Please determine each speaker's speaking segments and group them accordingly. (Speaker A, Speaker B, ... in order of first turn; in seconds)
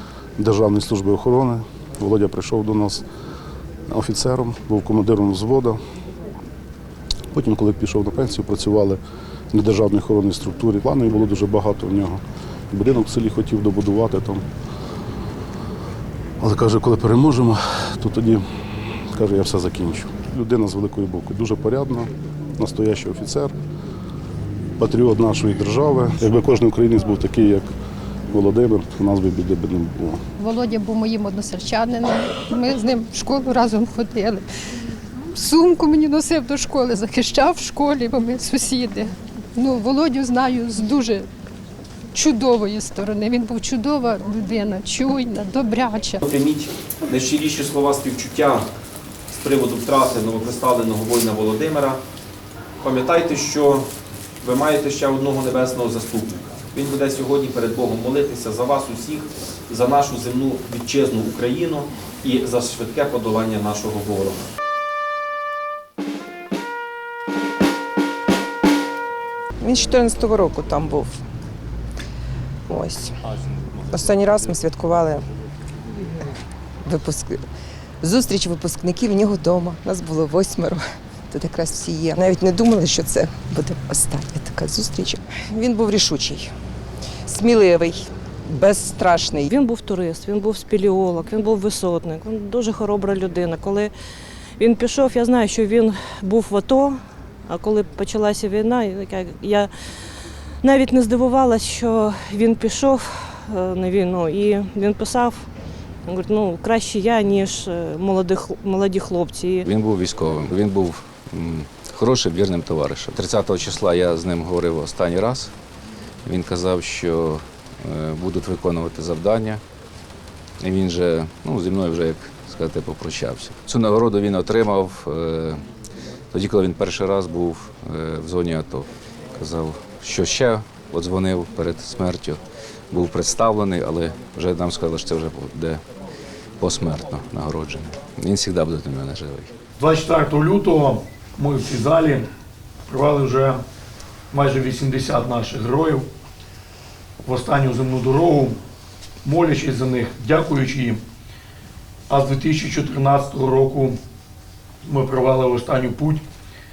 Speaker A: 0.4-3.0, 3.9-5.8, 7.3-9.0, 9.5-14.4, 16.4-18.4, 19.1-23.5, 24.8-27.7, 28.3-30.2
Speaker B: 30.4-34.5, 35.3-41.3, 42.1-46.2
Speaker C: 46.3-48.6, 49.4-52.0, 52.9-53.8, 54.5-59.2, 59.8-64.3
Speaker D: 69.6-71.2, 72.7-73.2, 73.8-75.3, 76.8-77.4, 78.0-86.5, 87.3-89.5
Speaker E: 89.5-93.9, 94.6-99.7, 100.6-105.5, 106.1-109.7
Speaker F: 109.6-115.5, 116.2-119.6, 120.6-125.6, 126.3-135.8, 136.6-139.5
Speaker G: 139.8-142.2, 142.9-143.6, 144.3-146.1, 147.2-148.6, 149.2-151.0, 152.1-153.9, 154.8-156.2